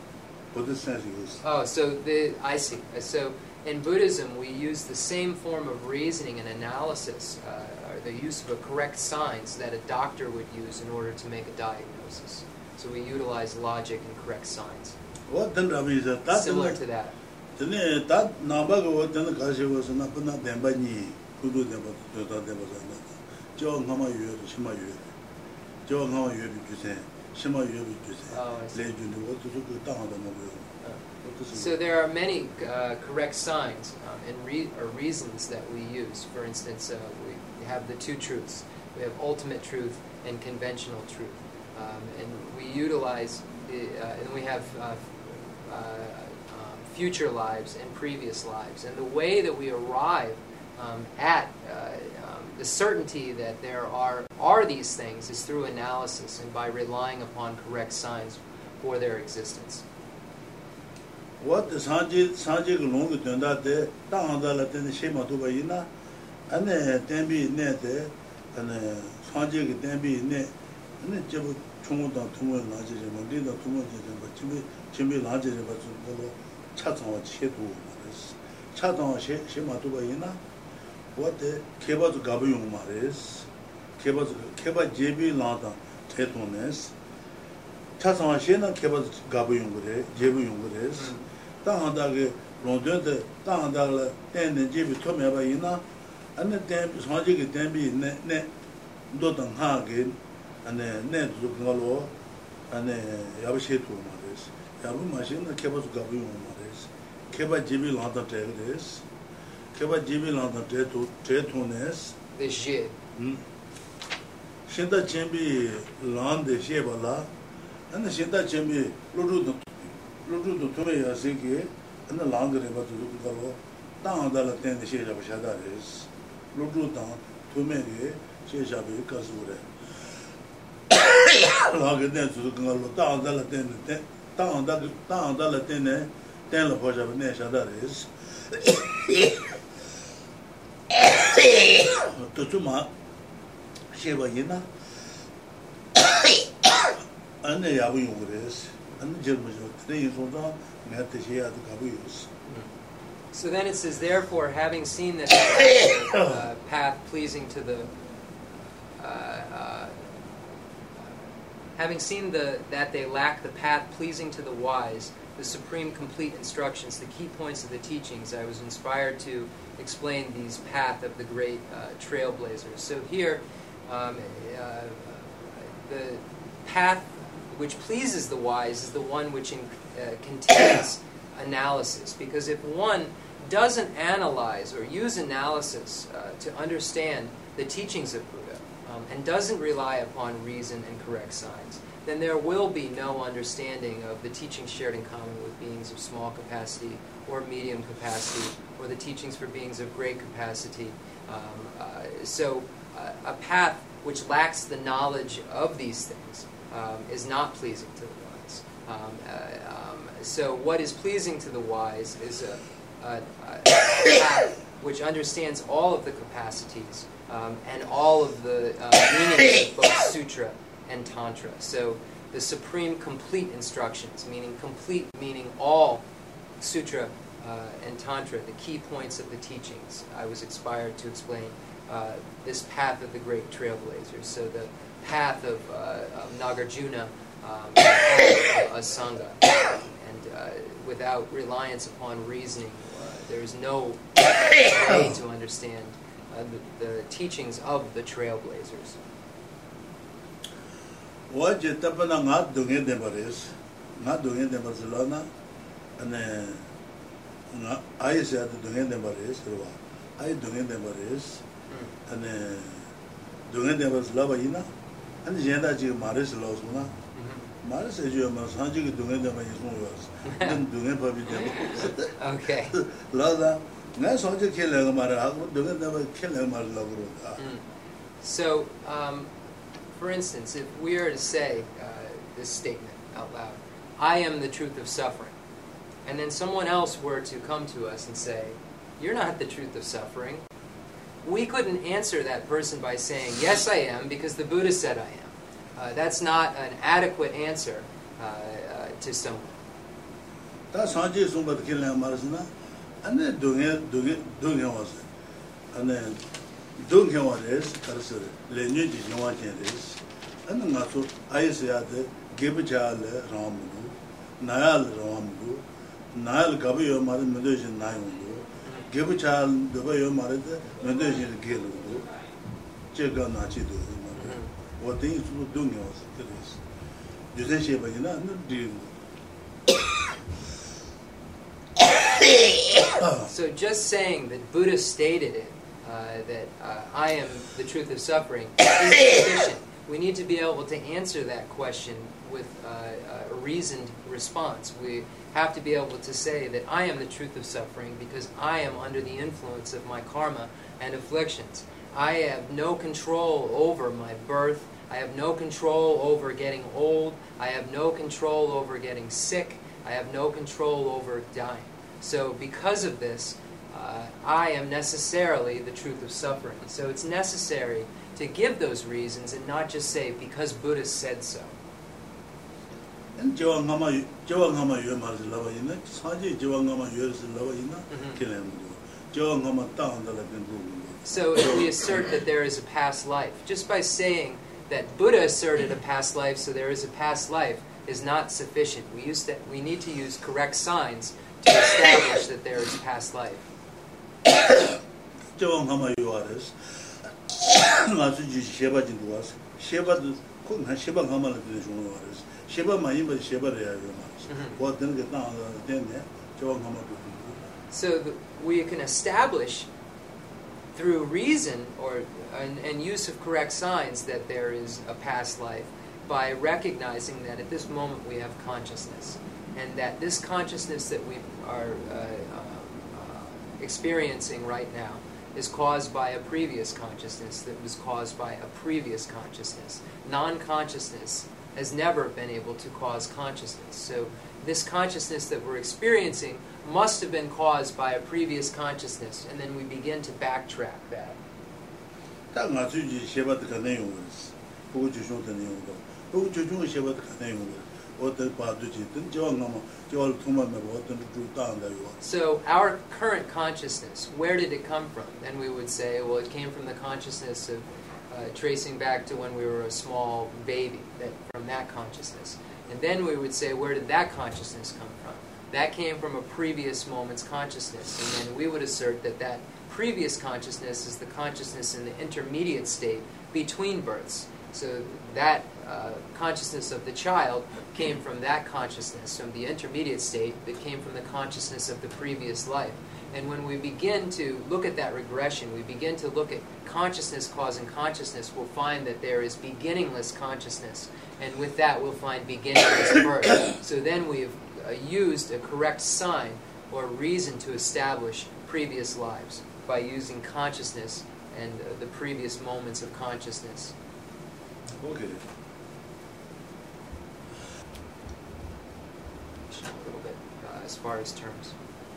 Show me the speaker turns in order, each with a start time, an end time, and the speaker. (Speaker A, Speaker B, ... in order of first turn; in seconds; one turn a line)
Speaker A: 0.5-1.4
Speaker B: 1.4-14.9
Speaker A: 15.3-16.8
Speaker B: 16.3-17.1
Speaker A: 17.6-25.1
Speaker A: 25.9-30.7
Speaker B: 28.3-28.8
Speaker A: 31.2-31.7
Speaker B: 31.5-59.8
Speaker A: 61.4-65.9
Speaker A: 66.5-80.4
Speaker A: 81.1-83.5
Speaker A: 84.0-86.9
Speaker A: 88.0-95.8
Speaker A: 96.4-98.5
Speaker A: 99.1-102.1
Speaker A: 102.7-109.0
Speaker A: 109.7-112.1
Speaker B: 112.3-112.9
Speaker A: 113.2-113.4
Speaker A: 114.7-117.3
Speaker A: 117.9-129.7
Speaker A: 130.9-139.4
Speaker A: 140.9-142.9
Speaker A: 143.9-144.7
Speaker A: 146.8-152.3
Speaker B: 153.3-157.9
Speaker B: 159.0-159.9
Speaker B: 161.8-226.0
Speaker B: 226.6-248.9
Speaker A: 251.3-255.2
Speaker A: 256.0-256.6
Speaker A: 257.5-261.4
Speaker A: 262.1-262.9
Speaker A: 263.5-264.7
Speaker A: 265.2-266.9
Speaker B: 267.1-267.5
Speaker A: 267.6-272.1
Speaker B: 270.2-270.6
Speaker B: 272.1-272.7
Speaker A: 272.7-277.4
Speaker B: 278.2-279.3
Speaker B: 279.9-285.4
Speaker B: 286.1-290.4
Speaker B: 291.2-299.6
Speaker A: 300.7-302.5
Speaker A: 303.0-305.0
Speaker A: 305.7-306.2
Speaker A: 306.8-322.1
Speaker A: 322.9-326.6
Speaker B: 324.2-324.5
Speaker A: 327.3-328.9
Speaker A: 332.7-333.3
Speaker B: 333.3-371.5
Speaker A: 373.2-381.7
Speaker B: 381.0-393.5
Speaker A: 394.3-394.8
Speaker A: 395.3-407.5
Speaker B: 404.3-404.6
Speaker B: 407.7-409.7
Speaker B: 410.7-441.2
Speaker A: 442.3-452.0
Speaker B: 452.0-503.7
Speaker A: 504.8-505.2
Speaker B: 509.5-511.5